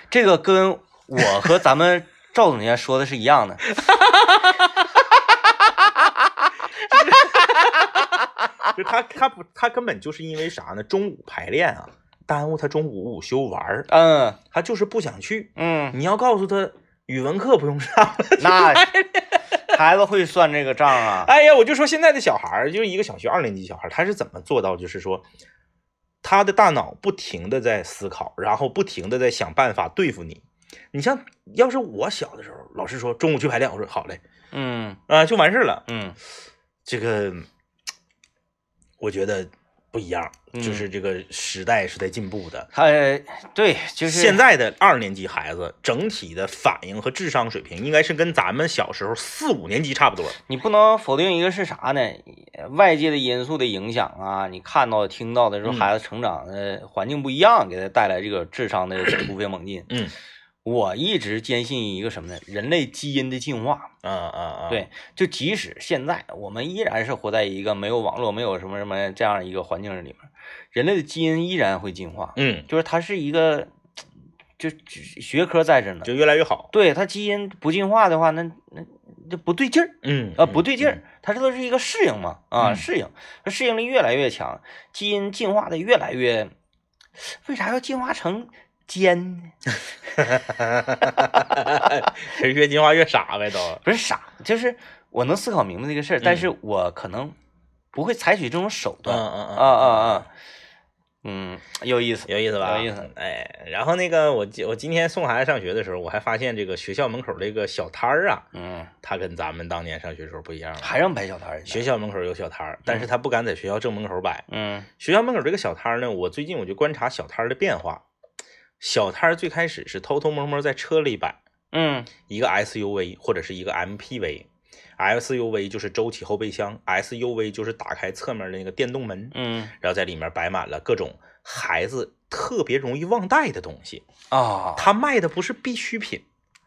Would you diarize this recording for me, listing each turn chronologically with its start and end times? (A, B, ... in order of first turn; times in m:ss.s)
0:00.1-0:03.7 A
0:03.7-0:04.6 B
0:06.9-0:07.5 A
0:06.9-0:07.9 B
0:08.7-0:13.9 B
0:13.9-0:14.4 A
0:14.5-0:19.4 B
0:15.6-0:16.0 A
0:18.4-0:18.9 A
0:19.7-0:21.3 A
0:21.0-0:25.2 B
0:26.2-0:34.2 B
0:34.5-0:35.0 A
0:35.1-0:35.8 B
0:35.9-0:36.2 A
0:36.8-0:37.5 B
0:39.0-0:42.7 B
0:40.5-0:40.9 A
0:42.7-0:44.4 A
0:44.0-0:50.4 B
0:50.5-0:59.9 A
0:55.6-0:55.9 B
0:59.9-1:00.2 B
1:00.6-1:03.9 A
1:04.0-1:04.8 B
1:04.7-1:10.2 A
1:10.7-1:13.7 A
1:12.4-1:12.7 B
1:14.6-1:16.1 A
1:16.0-1:16.7 B
1:16.7-1:26.5 A
1:20.0-1:21.0 B
1:22.6-1:22.8 B
1:27.2-1:29.6 A
1:30.2-1:33.8 B
1:31.4-1:31.8 A
1:33.8-1:37.4 A
1:36.2-1:36.5 B
1:37.9-1:40.3 A
1:39.1-1:40.3 B
1:41.2-1:43.1 A
1:42.3-1:48.4 B
1:48.5-1:48.9 A
1:49.0-1:51.0 B
1:50.8-1:51.8 A
1:51.7-1:54.4 B
1:54.5-1:54.9 A
1:55.0-1:58.0 B
1:58.8-2:01.4 B
2:01.7-2:02.1 A
2:02.3-2:04.5 B
2:05.0-2:14.0 B
2:09.3-2:09.7 A
2:14.3-2:14.9 A
2:14.8-2:16.2 B